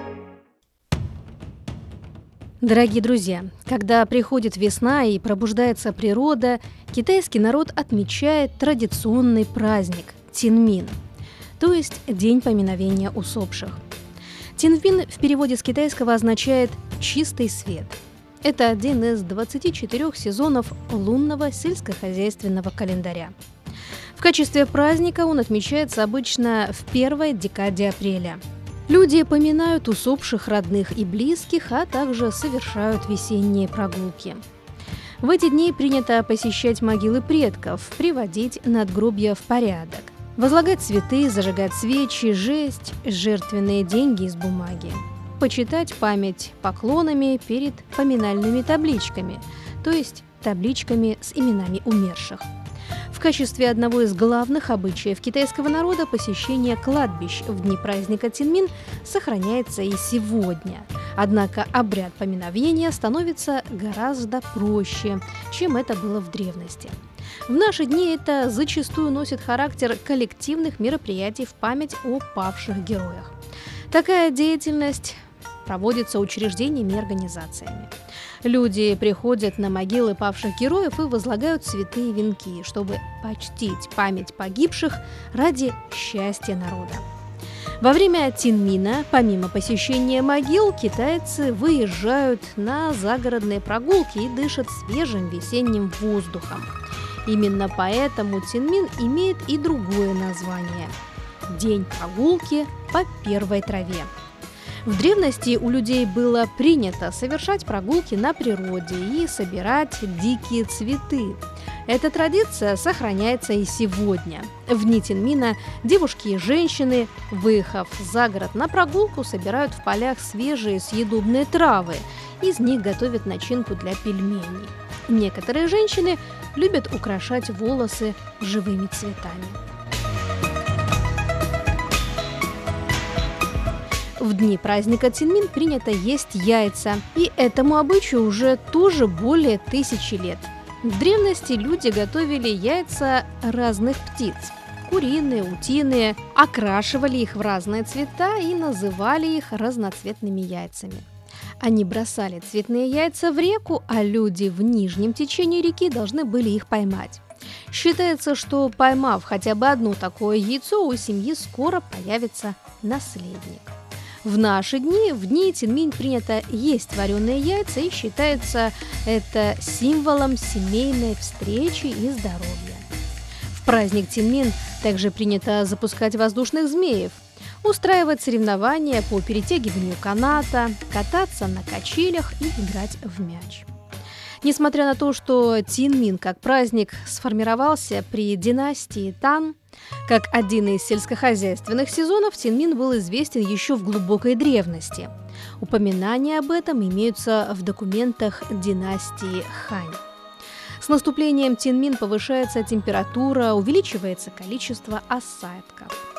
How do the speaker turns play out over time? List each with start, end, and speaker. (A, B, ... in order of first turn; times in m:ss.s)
0:02.6-0:11.0 A
0:11.6-0:13.8 A
0:14.6-0:23.4 A
0:24.2-0:34.4 A
0:35.2-0:52.5 A
0:53.1-1:13.3 A
1:13.9-1:17.9 A
1:18.4-1:27.1 A
1:27.8-1:36.7 A
1:37.2-1:41.0 A
1:41.5-1:44.1 A
1:44.8-2:09.6 A
2:14.2-2:31.1 A
2:31.6-2:52.9 A
2:53.5-3:03.7 A
3:04.4-3:20.0 A
3:20.8-3:26.0 A